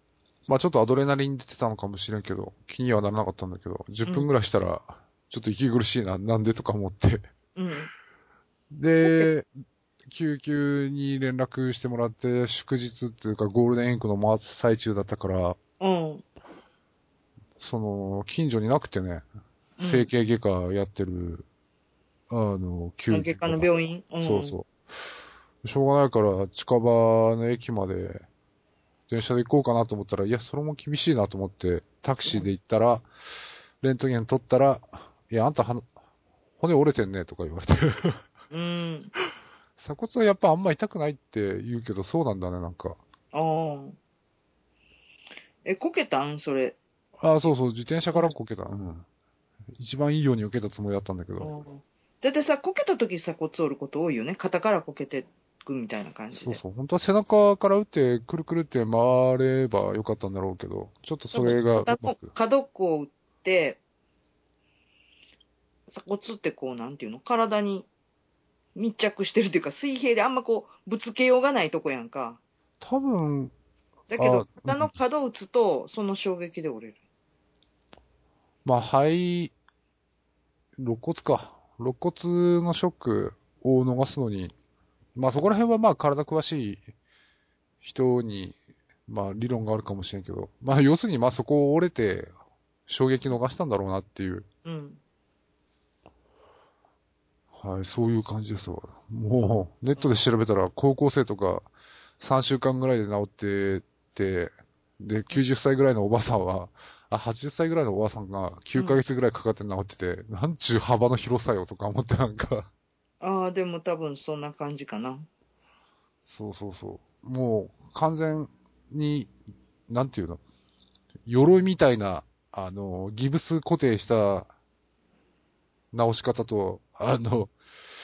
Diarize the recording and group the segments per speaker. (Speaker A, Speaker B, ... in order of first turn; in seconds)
Speaker A: 0.5-7.2, 8.7-9.5, 10.1-15.6, 17.6-19.2, 19.8-21.4, 22.3-23.7, 24.2-24.7, 25.6-28.3, 29.1-33.1, 33.8-35.9, 36.6-38.2, 39.8-43.0, 47.2-49.0, 49.8-51.5, 56.4-62.3, 72.8-73.5, 74.1-74.9, 78.7-79.5, 80.8-84.5, 85.2-86.8, 87.8-88.6, 89.1-92.3, 92.9-94.5, 97.5-112.7, 116.3-119.3, 119.9-120.4, 121.3-124.5, 125.9-127.5
Speaker B: 7.6-7.9, 9.0-9.3, 15.8-16.2, 19.8-20.1, 23.1-24.6, 38.5-39.1, 43.3-44.0, 45.6-46.8, 51.4-56.6, 61.3-63.8, 65.9-67.9, 68.8-72.4, 74.1-77.0, 94.7-95.0, 113.2-115.3